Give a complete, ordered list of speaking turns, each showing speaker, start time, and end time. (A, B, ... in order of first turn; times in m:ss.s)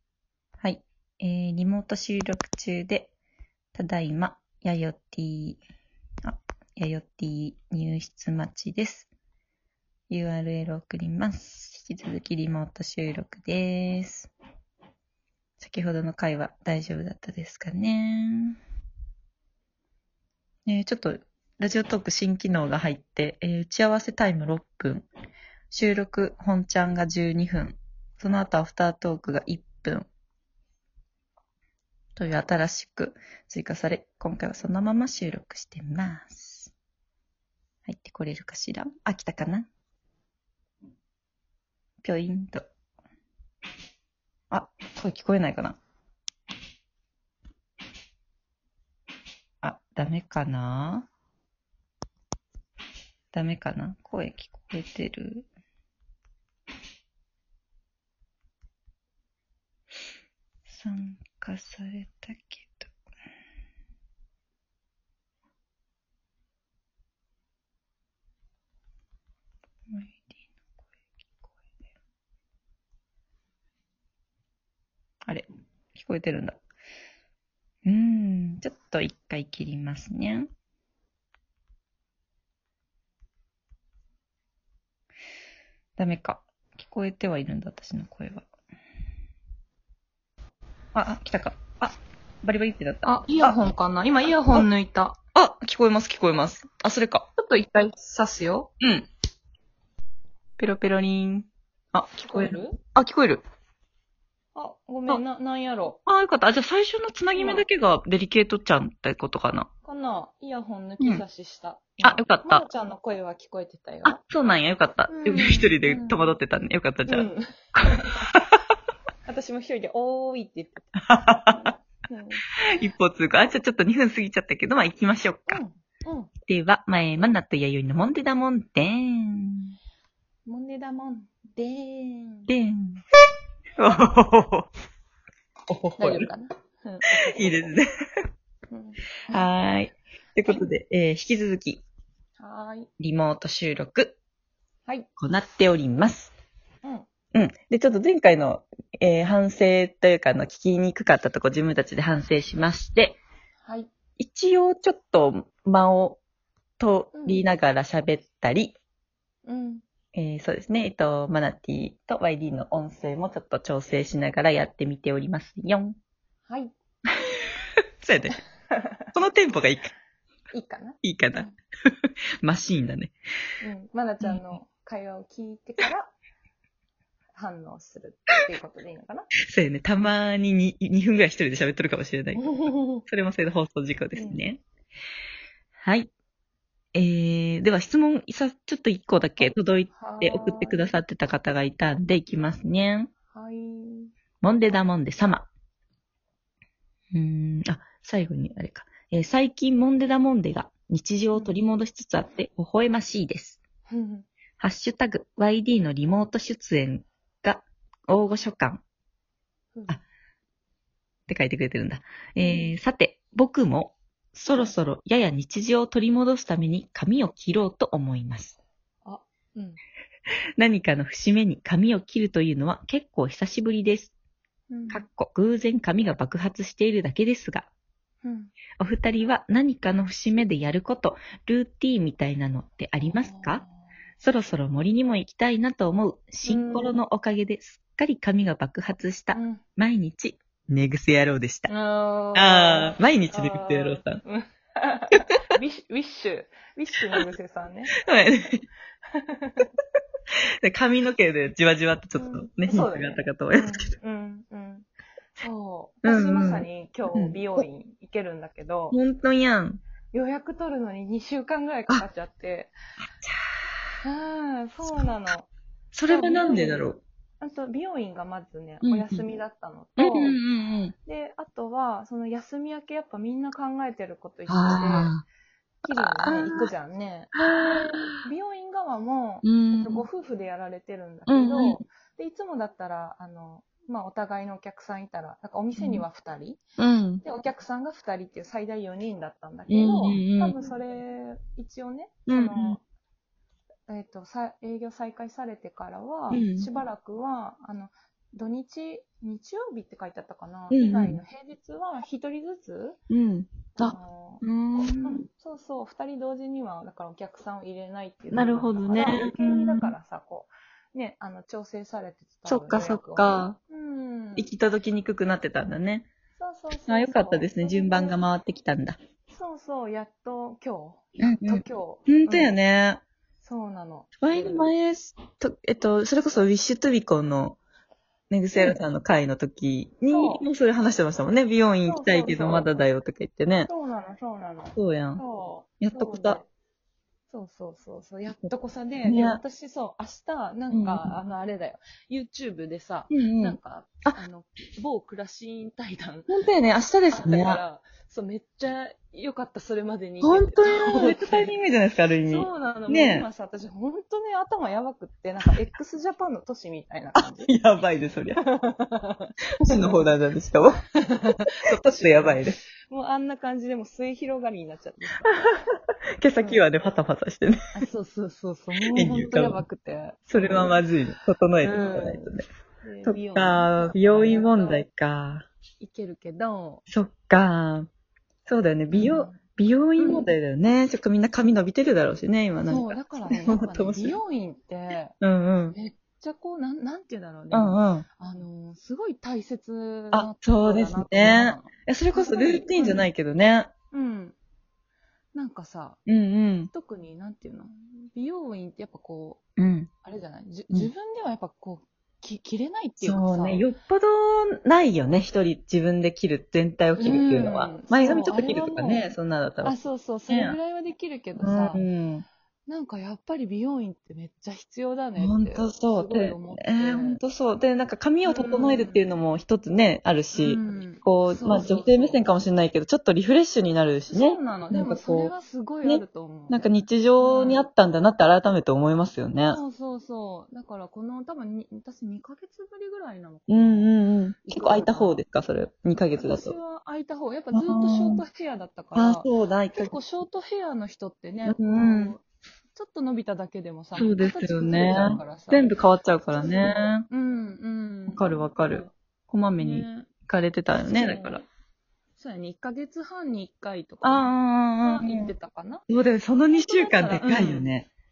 0:00.6-0:03.1 A
0:03.7-0:05.6 A
0:06.2-0:09.1 A
0:10.1-0:14.3 A
0:15.6-0:18.6 A
0:20.6-0:25.0 A
0:25.7-0:30.1 A
0:32.2-0:36.7 A
0:37.8-0:39.7 A
0:42.0-0:42.6 A
0:44.5-0:45.8 A
0:49.6-0:51.1 A
0:53.3-0:55.5 A
1:00.7-1:02.9 A
1:09.9-1:10.4 A
1:15.2-1:16.6 A
1:17.8-1:20.5 A
1:26.0-1:28.4 A
1:30.9-1:33.5 A
1:33.0-1:35.2 B
1:35.3-1:37.2 A
1:37.4-1:38.7 B
1:38.8-1:39.1 A
1:40.6-1:43.4 A
1:42.2-1:42.8 B
1:44.5-1:46.0 B
1:46.0-1:49.7 A
1:47.3-1:47.6 B
1:49.8-1:54.2 B
1:52.0-1:52.6 A
1:54.0-1:58.6 A
1:55.1-1:56.2 B
1:57.1-1:58.1 B
1:59.2-2:00.9 B
2:01.0-2:01.7 A
2:01.4-2:02.4 B
2:02.7-2:05.6 A
2:05.5-2:06.3 B
2:06.4-2:09.8 A
2:10.4-2:12.5 B
2:12.5-2:13.0 A
2:13.8-2:14.7 A
2:15.7-2:16.3 A
2:16.0-2:17.7 B
2:17.1-2:17.8 A
2:18.7-2:19.2 B
2:19.3-2:21.8 A
2:22.4-2:22.9 B
2:23.0-2:24.2 A
2:25.2-2:26.3 A
2:26.8-2:27.1 B
2:27.3-2:33.2 A
2:33.6-2:33.9 B
2:34.2-2:36.2 A
2:36.8-2:38.7 A
2:37.1-2:37.4 B
2:39.4-2:39.8 B
2:40.1-2:46.0 A
2:46.4-2:46.7 B
2:48.0-2:48.4 A
2:49.1-2:49.9 A
2:50.5-2:51.5 B
2:51.0-2:51.5 A
2:52.4-2:53.1 A
2:53.6-2:56.1 B
2:57.3-2:59.3 B
2:59.5-3:02.4 A
3:02.3-3:03.0 B
3:03.0-3:04.6 A
3:04.1-3:04.4 B
3:05.8-3:06.1 A
3:06.9-3:13.1 A
3:09.9-3:10.9 B
3:13.3-3:14.1 B
3:14.4-3:15.5 A
3:17.1-3:23.6 A
3:23.9-3:24.3 B
3:24.6-3:28.8 A
3:29.7-3:30.0 B
3:31.3-3:38.6 A
3:32.4-3:32.8 B
3:39.0-3:39.8 B
3:40.6-3:44.1 A
3:44.7-3:45.0 B
3:44.9-3:47.7 A
3:48.2-3:48.5 B
3:48.8-3:53.6 A
3:53.0-3:53.7 B
3:54.2-4:01.7 A
3:56.4-3:56.9 B
3:59.3-3:59.6 B
4:01.7-4:08.0 B
4:02.3-4:04.2 A
4:08.0-4:08.6 A
4:09.1-4:09.7 B
4:10.6-4:13.9 A
4:12.2-4:19.0 B
4:16.0-4:17.4 A
4:18.9-4:19.8 A
4:20.1-4:22.7 B
4:23.2-4:23.5 A
4:24.0-4:25.5 B
4:25.9-4:27.0 A
4:26.1-4:30.4 B
4:28.8-4:29.2 A
4:30.0-4:30.9 A
4:31.0-4:35.2 B
4:34.5-4:35.2 A
4:35.8-4:46.6 B
4:35.9-4:36.7 A
4:37.3-4:38.2 A
4:39.4-4:40.0 A
4:41.3-4:41.8 A
4:45.7-4:46.0 A
4:46.8-4:47.2 A
4:47.2-4:52.8 B
4:49.7-4:50.6 A
4:52.3-4:52.8 A
4:53.9-5:03.0 B
4:56.3-4:56.7 A
5:00.7-5:01.2 A
5:03.1-5:05.2 A
5:03.8-5:14.5 B
5:08.3-5:09.9 A
5:12.4-5:13.6 A
5:14.4-5:16.1 A
5:16.4-5:18.2 B
5:16.9-5:19.0 A
5:19.3-5:22.5 B
5:21.2-5:23.0 A
5:23.4-5:24.7 B
5:24.2-5:27.6 A
5:28.3-5:33.7 A
5:30.1-5:30.4 B
5:31.8-5:32.7 B
5:33.7-5:36.4 B
5:34.7-5:35.2 A
5:35.8-5:36.4 A
5:37.3-5:46.3 B
5:39.0-5:39.4 A
5:40.7-5:41.1 A
5:43.1-5:44.2 A
5:46.3-5:47.6 A
5:47.1-5:51.5 B
5:50.2-5:53.2 A
5:52.2-5:57.6 B
5:57.2-5:58.4 A
5:58.4-6:00.0 B
5:59.6-6:00.8 A
6:01.0-6:05.5 B
6:01.6-6:02.6 A
6:06.2-6:07.7 A
6:06.4-6:06.6 B
6:07.7-6:10.8 B
6:08.9-6:09.6 A
6:10.3-6:12.4 A
6:11.6-6:14.8 B
6:13.0-6:15.5 A
6:15.8-6:16.8 B
6:16.9-6:17.9 A
6:18.4-6:24.2 A
6:18.9-6:19.4 B
6:20.0-6:20.3 B
6:22.6-6:25.1 B
6:25.2-6:25.8 A
6:25.7-6:33.1 B
6:27.5-6:28.0 A
6:30.1-6:33.7 A
6:33.9-6:34.4 B
6:35.3-6:36.0 B
6:36.0-6:36.7 A
6:36.7-6:39.4 B
6:39.6-6:39.9 A
6:40.0-6:43.6 B
6:43.0-6:49.8 A
6:47.0-6:49.0 B
6:49.6-6:51.8 B
6:50.3-6:50.6 A
6:51.4-6:52.2 A
6:52.7-6:57.2 B
6:55.2-7:05.3 A
6:58.2-6:59.0 B
7:00.3-7:02.2 B
7:04.1-7:06.6 B
7:05.8-7:09.6 A
7:07.2-7:07.6 B
7:09.5-7:15.2 B
7:13.5-7:16.6 A
7:16.1-7:22.2 B
7:17.5-7:18.2 A
7:18.9-7:19.9 A
7:21.4-7:22.1 A
7:22.7-7:25.7 B
7:23.9-7:27.0 A
7:26.4-7:28.9 B
7:28.1-7:31.4 A
7:29.6-7:30.1 B
7:30.8-7:31.4 B
7:32.2-7:34.3 B
7:34.0-7:35.3 A
7:34.8-7:35.8 B
7:35.9-7:37.9 A
7:36.5-7:37.7 B